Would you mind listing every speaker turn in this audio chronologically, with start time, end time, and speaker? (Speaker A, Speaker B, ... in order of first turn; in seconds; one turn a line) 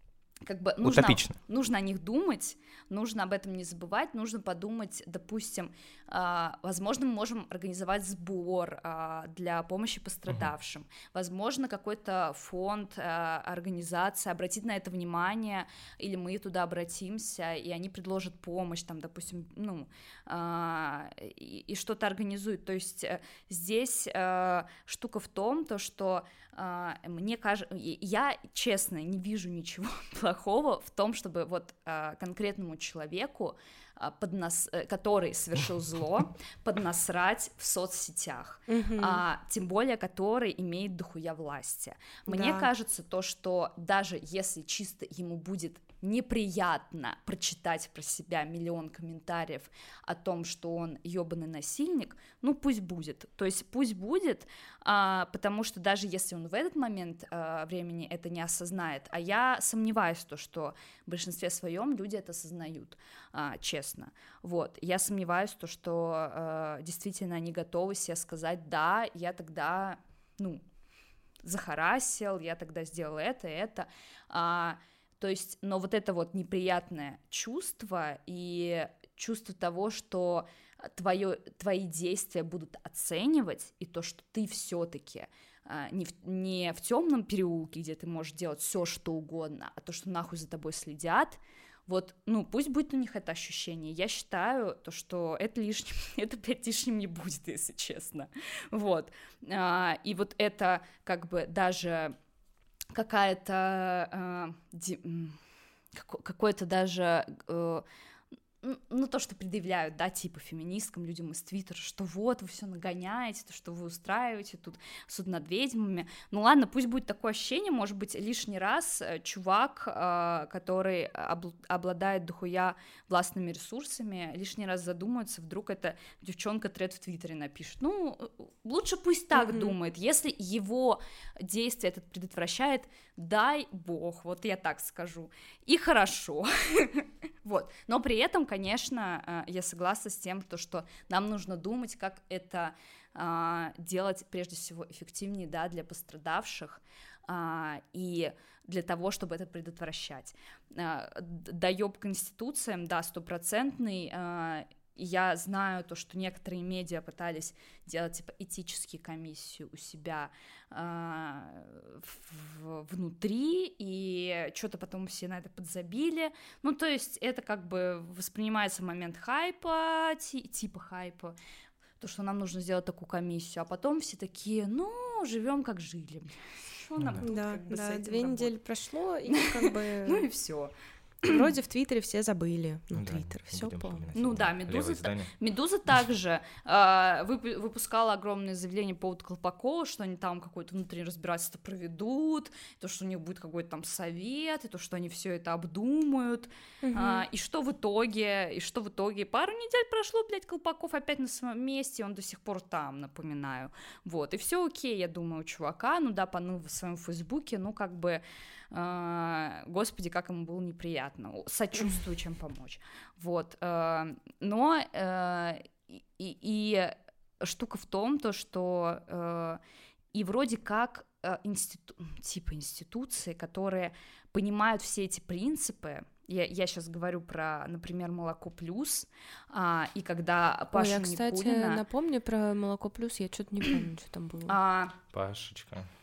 Speaker A: 0.4-70.6
Speaker B: 0.8-1.4
Speaker C: 38.7-39.2
Speaker C: 42.3-42.7
Speaker A: 71.4-102.1
Speaker A: 102.9-105.4
Speaker A: 105.9-107.8
Speaker A: 108.6-171.3
Speaker C: 129.3-129.7
Speaker A: 172.0-178.5
Speaker B: 177.0-177.2
Speaker C: 177.2-180.2
Speaker A: 179.3-181.5
Speaker C: 181.2-184.0
Speaker B: 182.9-185.3
Speaker A: 184.1-219.6
Speaker C: 196.8-197.2
Speaker A: 220.1-231.8
Speaker C: 230.7-234.6
Speaker A: 234.5-234.9
Speaker B: 235.1-235.9